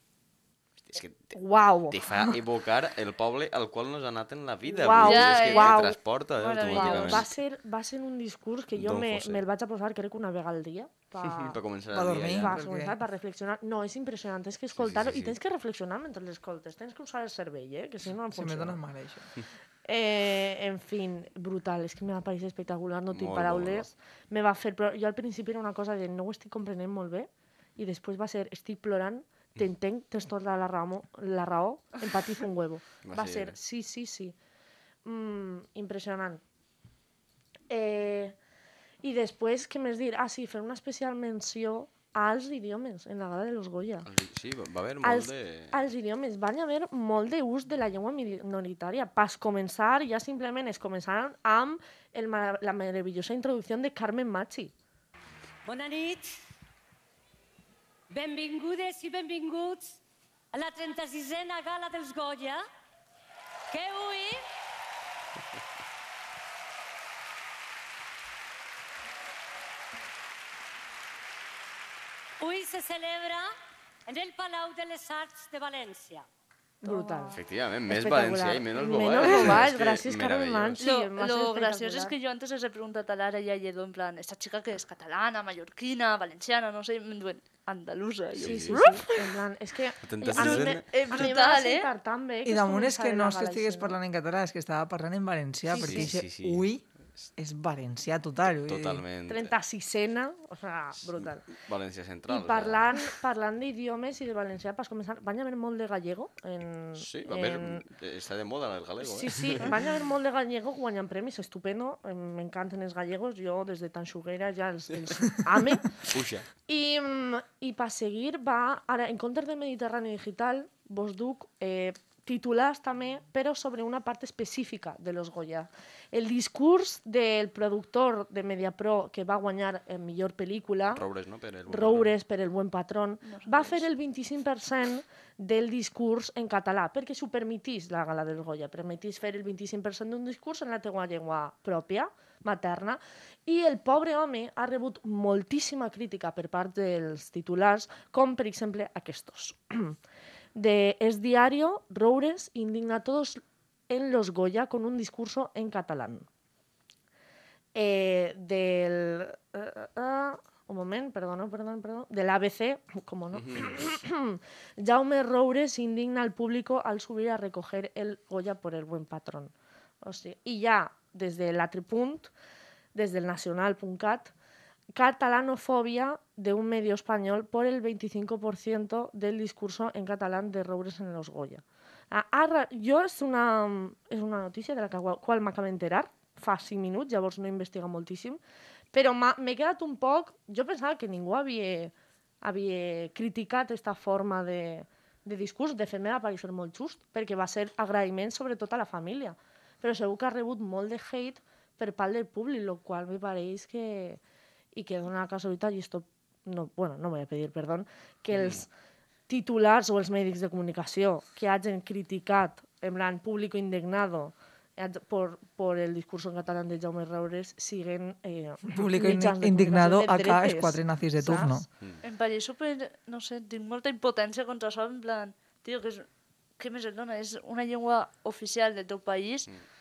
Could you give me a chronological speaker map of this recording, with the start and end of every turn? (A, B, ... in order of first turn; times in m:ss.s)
0:00.8-0:01.3 A
0:01.3-0:02.0 B
0:01.9-0:07.3 A
0:04.6-0:06.0 B
0:05.0-0:05.8 C
0:06.4-0:07.3 C
0:06.6-0:11.6 B
0:08.8-0:09.4 A
0:11.2-0:12.6 A
0:11.9-0:13.0 D
0:12.3-0:18.8 B
0:14.8-0:15.4 A
0:18.3-0:19.3 D
0:19.8-0:34.3 B
0:23.1-0:23.9 A
0:33.0-0:33.5 A
0:35.0-0:36.4 B
0:37.7-0:38.4 B
0:39.0-0:44.1 B
0:44.0-0:45.8 A
0:45.0-0:54.7 B
0:55.6-0:56.3 E
0:58.1-0:59.9 E
1:00.5-1:02.6 E
1:03.7-1:04.4 E
1:12.4-1:13.5 E
1:14.1-1:16.2 E
1:16.8-1:22.1 B
1:16.8-1:17.4 C
1:17.3-1:20.8 A
1:20.8-1:29.3 C
1:28.4-1:28.8 A
1:28.4-1:34.0 B
1:30.0-1:30.8 A
1:30.3-1:31.9 C
1:32.4-1:36.8 D
1:35.7-1:36.1 B
1:35.8-1:36.7 A
1:37.4-1:39.0 D
1:38.5-1:39.5 A
1:39.3-1:41.4 B
1:41.2-1:42.9 A
1:42.3-1:47.8 B
1:47.0-1:49.8 A
1:49.0-1:55.9 B
1:56.1-1:56.5 A
1:56.7-2:11.1 B
2:10.9-2:12.1 A
2:11.7-2:30.0 B
2:13.2-2:13.8 C
2:30.5-2:36.3 B
2:37.7-2:52.3 B
2:43.3-2:44.0 A
2:52.9-2:54.3 B
2:54.9-3:08.4 B
3:08.9-3:24.2 B
3:24.7-3:28.7 B
3:28.3-3:28.6 A
3:29.3-3:41.6 B
3:38.7-3:41.6 D
3:42.0-3:46.0 C
3:46.6-3:49.5 C